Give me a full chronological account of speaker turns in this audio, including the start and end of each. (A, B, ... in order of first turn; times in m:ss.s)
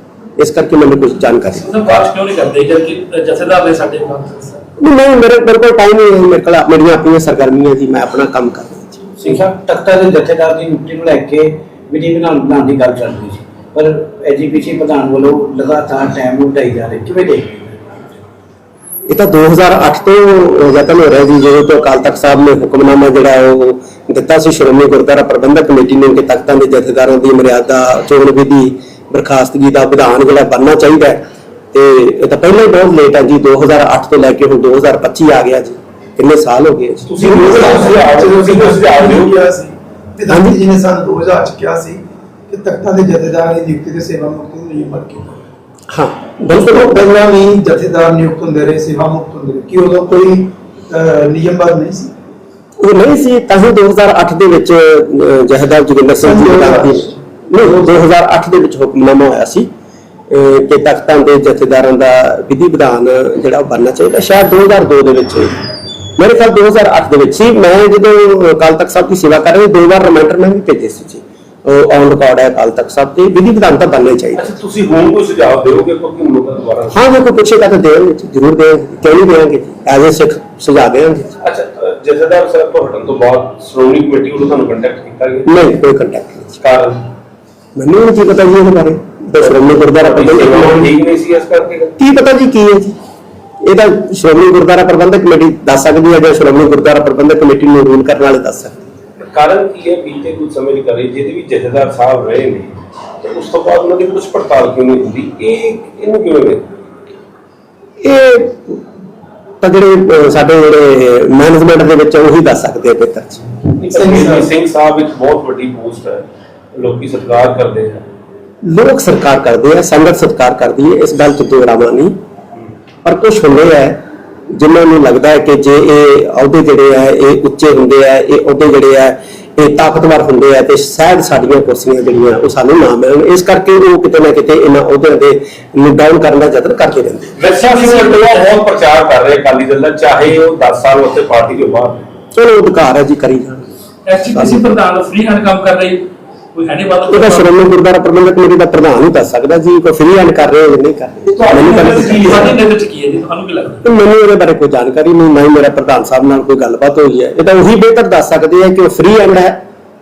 0:00.4-0:01.7 A
0:01.5-0:04.6 B
0:04.8-0:09.4 A
0:09.2-0:17.9 C
0:19.1-0:37.9 A
0:37.1-0:39.5 D
0:37.3-0:45.5 E
0:40.3-0:40.6 A
0:45.9-0:47.0 A
0:46.5-0:52.1 E
0:52.8-0:59.7 A
0:56.2-0:57.2 E
1:00.3-1:05.5 A
1:06.2-1:14.4 A
1:14.4-1:17.0 D
1:16.9-1:21.4 A
1:21.4-1:25.5 D
1:25.4-1:26.6 A
1:26.6-1:27.0 D
1:27.8-1:30.9 A
1:29.4-1:32.0 D
1:32.0-1:33.0 A
1:33.6-1:38.9 A
1:39.2-1:46.7 D
1:48.0-1:48.8 A
1:49.6-1:53.4 A
1:53.8-1:58.0 D
1:53.9-1:54.5 E
1:58.6-2:02.2 A
2:03.0-2:17.4 A
2:17.4-2:22.0 D
2:17.4-2:18.6 B
2:22.3-2:23.7 A
2:24.0-2:27.6 B
2:24.3-2:24.6 A
2:27.1-2:32.5 A
2:31.2-2:32.6 D
2:32.2-2:33.9 B
2:33.8-2:39.6 A